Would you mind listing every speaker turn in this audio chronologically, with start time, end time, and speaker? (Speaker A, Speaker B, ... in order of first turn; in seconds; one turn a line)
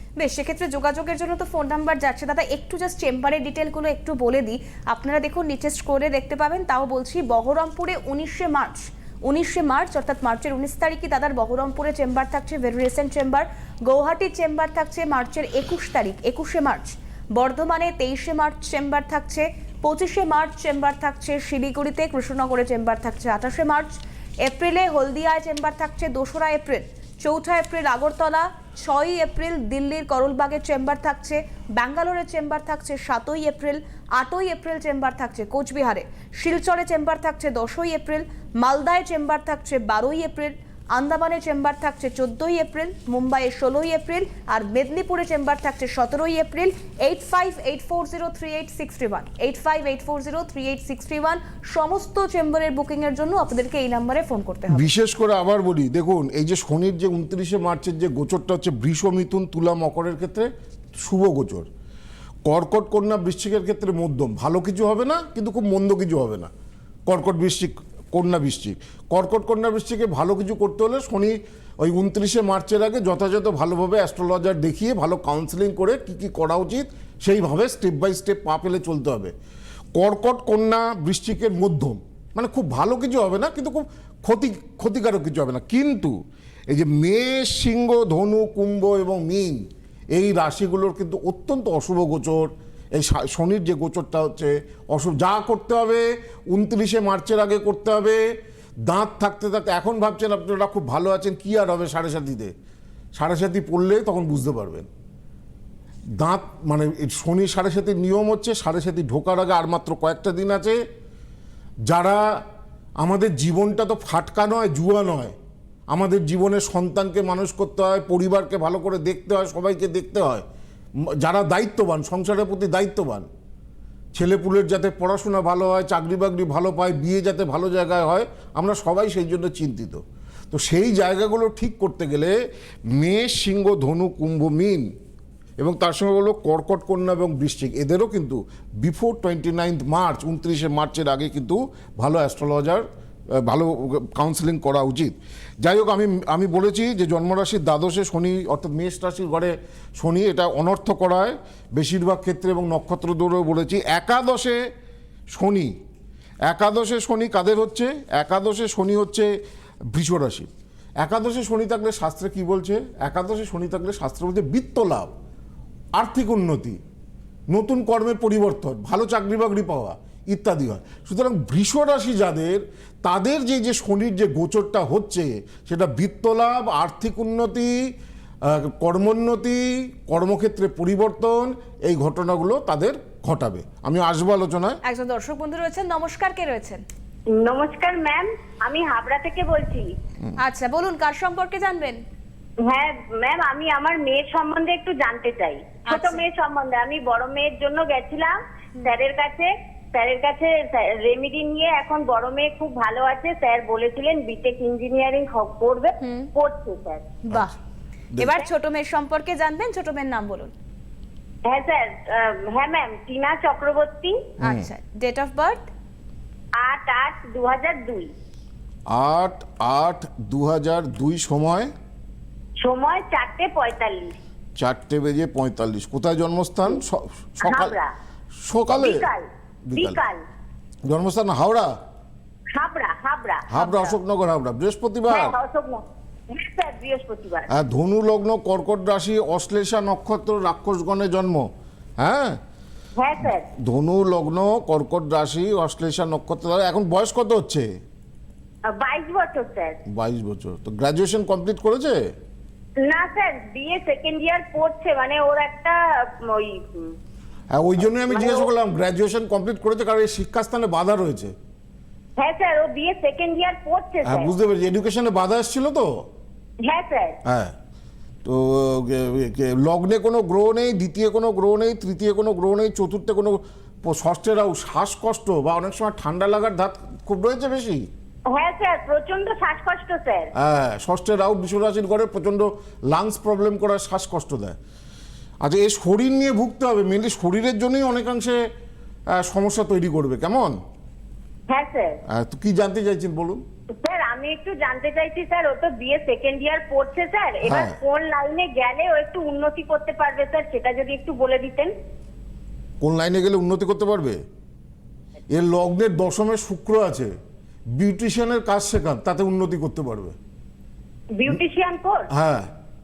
Speaker A: 0.2-54.9
Speaker B: 54.7-61.7
Speaker B: 62.5-66.5
Speaker B: 67.1-79.3
Speaker B: 80.0-86.2
Speaker B: 86.7-98.2
Speaker B: 98.8-102.5
Speaker B: 103.2-104.9
Speaker B: 106.2-110.8
Speaker B: 111.9-112.4
Speaker B: 113.0-115.3
Speaker B: 115.9-120.5
Speaker B: 121.2-123.3
Speaker B: 124.2-132.3
Speaker B: 132.9-134.9
Speaker B: 135.6-154.6
Speaker B: 155.3-155.7
Speaker B: 156.5-159.3
Speaker B: 159.9-160.5
Speaker B: 161.0-165.1
Speaker B: 166.0-166.8
Speaker B: 167.5-177.8
Speaker B: 178.4-184.8
Speaker A: 184.8-186.8
Speaker C: 187.4-189.9
Speaker A: 190.4-192.0
Speaker C: 192.7-207.1
Speaker A: 195.9-196.2
Speaker A: 206.0-206.3
Speaker A: 207.3-207.6
Speaker A: 208.2-210.5
Speaker C: 211.5-214.2
Speaker B: 214.4-214.7
Speaker A: 214.4-215.7
Speaker C: 216.6-218.1
Speaker B: 218.9-221.7
Speaker C: 222.6-224.2
Speaker B: 224.6-227.8
Speaker C: 227.4-227.9
Speaker B: 228.4-229.1
Speaker C: 228.7-230.2
Speaker B: 229.7-230.0
Speaker B: 230.9-231.8
Speaker C: 232.5-233.9
Speaker B: 233.5-235.4
Speaker C: 235.1-237.5
Speaker B: 237.5-241.5
Speaker B: 242.0-242.4
Speaker C: 243.0-243.5
Speaker B: 243.5-247.7
Speaker C: 248.7-249.8
Speaker B: 249.9-252.0
Speaker C: 252.8-256.9
Speaker B: 257.5-261.3
Speaker C: 258.1-258.5
Speaker C: 262.2-264.3
Speaker B: 264.0-266.1
Speaker C: 266.6-267.2
Speaker B: 267.2-267.6
Speaker B: 268.2-277.9
Speaker C: 278.3-280.3
Speaker B: 280.4-284.6
Speaker B: 285.4-288.4
Speaker B: 289.1-290.6
Speaker C: 291.5-292.0
Speaker B: 292.1-293.4
Speaker C: 293.8-301.7
Speaker B: 297.4-297.8
Speaker B: 302.8-304.2
Speaker B: 305.3-307.1
Speaker B: 307.8-310.2
Speaker C: 311.1-312.1
Speaker B: 312.1-312.5